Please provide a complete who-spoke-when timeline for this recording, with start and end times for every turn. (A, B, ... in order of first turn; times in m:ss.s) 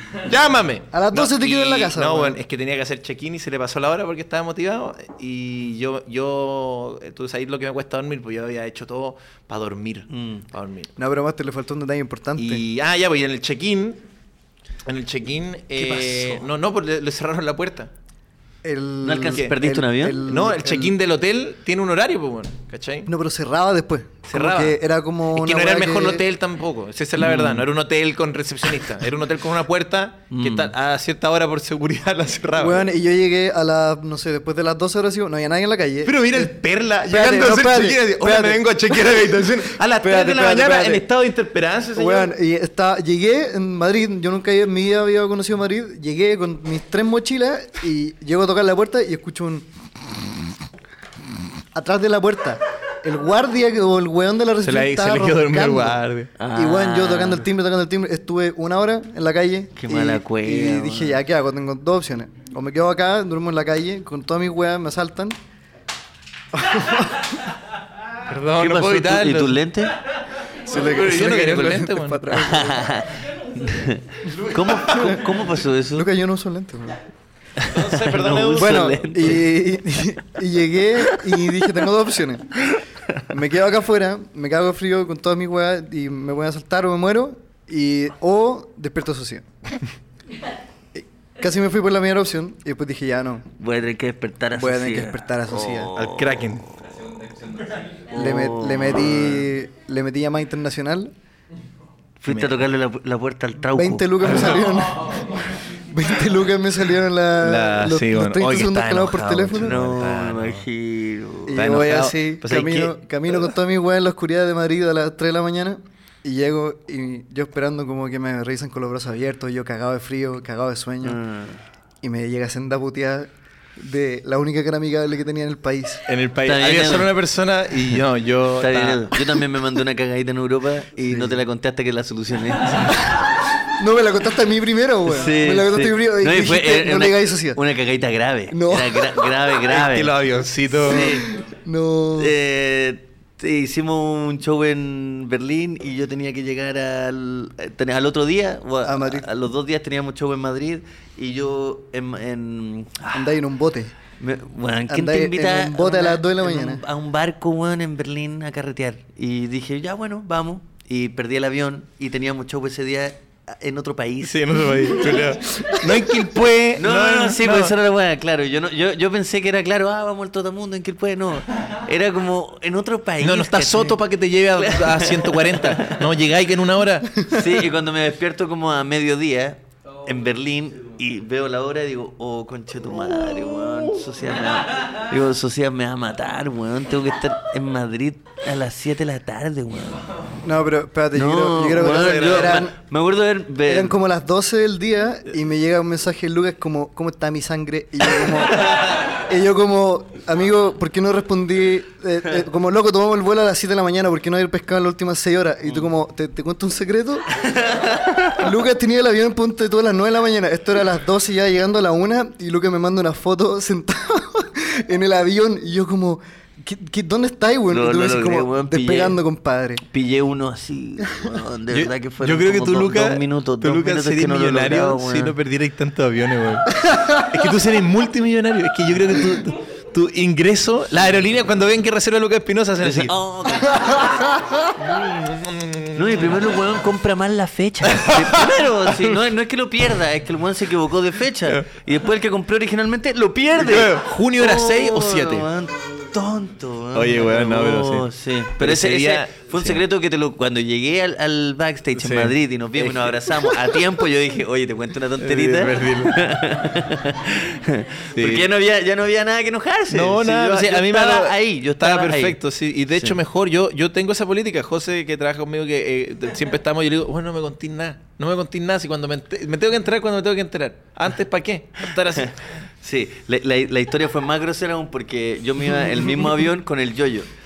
0:00.2-0:10.9 A
0:00.9-0:02.4 B
0:10.1-0:10.4 C
0:11.0-0:12.6 B
0:12.4-0:14.0 A
0:14.8-0:17.9 A
0:15.8-0:16.4 C
0:18.6-0:20.9 B
0:19.0-0:20.3 C
0:20.3-0:23.1 A
0:23.0-0:26.2 B
0:24.3-0:24.8 A
0:25.3-0:32.9 A
0:27.2-0:27.6 C
0:30.3-0:30.7 C
0:32.6-0:36.5 B
0:36.0-0:42.3 A
0:37.0-0:41.1 B
0:41.9-0:49.7 B
0:51.7-0:56.0 B
0:54.6-0:56.3 A
0:56.4-0:57.4 C
0:56.5-1:05.4 B
0:59.8-1:01.2 C
1:06.5-1:07.3 B
1:08.3-1:09.6 A
1:08.6-1:09.9 C
1:10.6-1:12.9 B
1:10.7-1:12.3 A
1:12.4-1:16.1 C
1:14.5-1:15.1 A
1:15.9-1:17.0 B
1:17.6-1:19.5 C
1:17.7-1:19.2 A
1:18.5-1:22.7 B
1:23.3-1:29.5 B
1:30.9-1:33.5 B
1:33.6-1:36.5 C
1:34.5-1:35.9 B
1:36.0-1:36.7 A
1:38.1-1:39.4 C
1:38.1-1:41.1 B
1:42.2-1:44.4 C
1:42.2-1:42.6 A
1:43.7-1:49.8 B
1:47.4-1:50.7 A
1:49.6-1:51.7 C
1:51.5-2:01.2 B
1:51.5-1:52.9 A
2:01.0-2:01.6 C
2:02.0-2:06.0 B
2:06.1-2:09.4 A
2:06.4-2:07.1 C
2:08.6-2:13.3 C
2:11.0-2:11.4 B
2:13.8-2:17.6 B
2:15.1-2:20.1 C
2:18.5-2:19.4 B
2:19.7-2:21.2 A
2:20.7-2:21.2 C
2:20.8-2:22.3 B
2:22.2-2:33.4 C
2:28.8-2:29.3 B
2:33.1-2:33.9 B
2:34.2-2:45.2 C
2:34.9-2:36.8 B
2:44.2-2:47.7 A
2:46.8-2:54.0 C
2:53.2-2:57.2 A
2:54.5-2:56.0 C
2:57.3-3:10.0 C
3:03.3-3:03.9 A
3:10.4-3:12.7 B
3:11.1-3:13.9 C
3:11.9-3:12.6 A
3:13.6-3:27.5 B
3:27.4-3:28.4 C
3:28.4-3:39.8 B
3:37.7-3:39.2 C
3:39.9-3:45.3 C
3:41.7-3:53.1 A
3:52.8-3:54.2 C
3:54.8-3:56.4 A
3:55.9-4:22.4 C
3:57.9-3:59.2 A
4:03.6-4:05.5 A
4:06.9-4:09.8 A
4:12.0-4:13.6 A
4:15.2-4:16.3 A
4:18.2-4:18.5 A
4:19.9-4:32.5 A
4:22.9-4:23.2 C
4:32.8-4:37.3 C